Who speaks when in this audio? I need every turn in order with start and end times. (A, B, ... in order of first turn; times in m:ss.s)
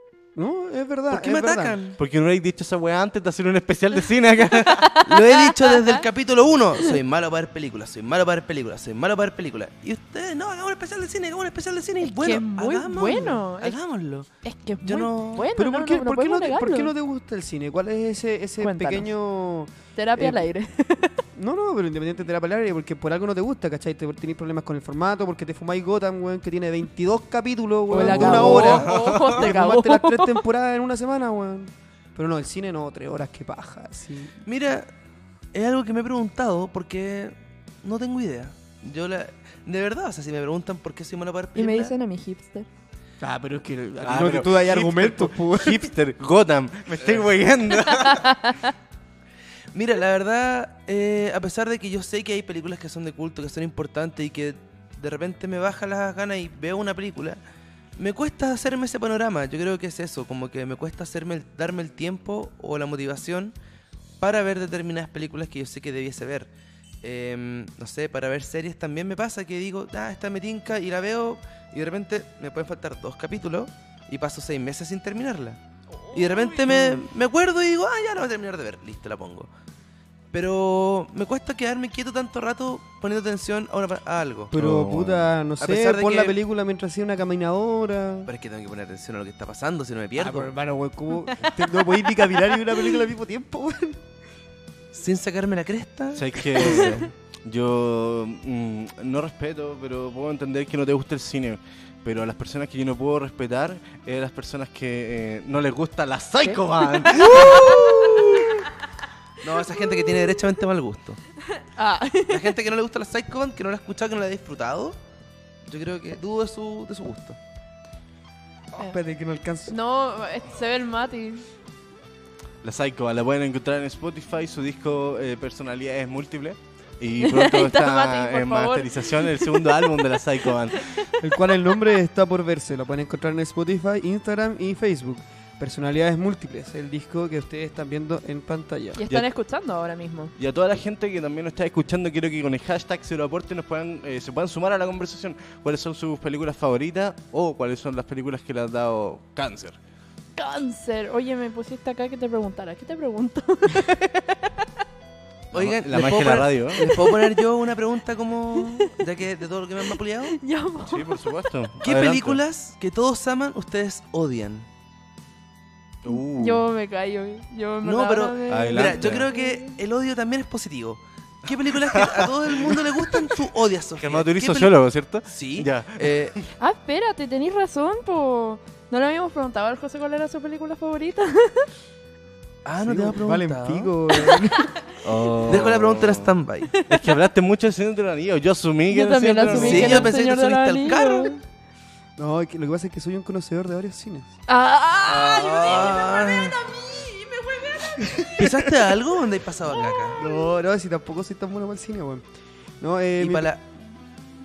0:00.4-0:01.8 A
0:01.1-0:02.0 B
0:02.0-0:04.9 C
0:04.7-0:06.0 D
0:05.0-0:14.3 B
0:12.0-0:13.8 D
0:14.4-0:16.9 D
0:14.8-0:15.5 B
0:15.5-0:20.4 A
0:18.6-0:19.1 D
0:20.0-0:21.2 D
0:21.3-0:34.4 A
0:27.9-0:30.4 D
0:28.0-0:29.4 C
0:34.4-0:34.9 B
0:35.5-0:41.9 B
0:41.5-0:42.7 D
0:43.2-0:45.9 A
0:44.0-0:48.4 C
0:47.0-0:47.2 B
0:48.0-0:48.7 D
0:49.7-0:57.4 B
0:58.0-1:03.5 B
1:04.2-1:06.5 B
1:07.0-1:15.6 B
1:15.9-1:16.6 D
1:16.1-1:19.5 B
1:16.7-1:17.1 A
1:20.3-1:24.5 B
1:24.5-1:28.3 A
1:24.5-1:25.3 C
1:25.6-1:26.4 B
1:28.2-1:30.5 B
1:30.2-1:34.0 A
1:31.2-1:31.9 D
1:34.9-1:37.0 B
1:36.1-1:47.8 C
1:46.4-1:48.4 D
1:47.2-1:48.5 B
1:49.4-1:51.2 B
1:51.5-1:52.5 D
1:52.3-1:55.0 B
1:55.7-1:57.4 B
1:58.7-1:59.8 A
1:59.7-2:01.4 D
2:02.6-2:11.0 C
2:07.2-2:11.0 D
2:11.2-2:19.0 A
2:19.0-2:20.3 D
2:20.4-2:29.8 C
2:30.4-2:34.6 D
2:35.5-2:36.8 C
2:35.5-2:40.4 B
2:36.8-2:37.4 D
2:38.6-2:39.0 D
2:40.3-2:41.3 D
2:40.8-2:42.4 C
2:41.8-2:44.7 B
2:46.0-2:46.6 C
2:46.1-2:49.8 D
2:47.8-2:54.7 B
2:48.5-2:49.3 C
2:51.8-2:53.3 C
2:54.0-2:56.4 C
2:55.2-2:56.4 B
2:56.6-3:01.7 D
3:02.6-3:03.9 B
3:02.8-3:04.7 A
3:04.3-3:04.7 D
3:05.0-3:06.3 C
3:05.4-3:06.7 B
3:06.7-3:07.1 D
3:06.9-3:10.1 C
3:08.9-3:11.4 D
3:09.5-3:11.4 B
3:12.2-3:14.3 A
3:14.5-3:18.3 D
3:15.0-3:16.6 B
3:18.0-3:18.7 A
3:18.4-3:20.2 B
3:19.8-3:20.2 D
3:20.1-3:22.2 A
3:22.8-3:23.5 A
3:23.2-3:23.6 B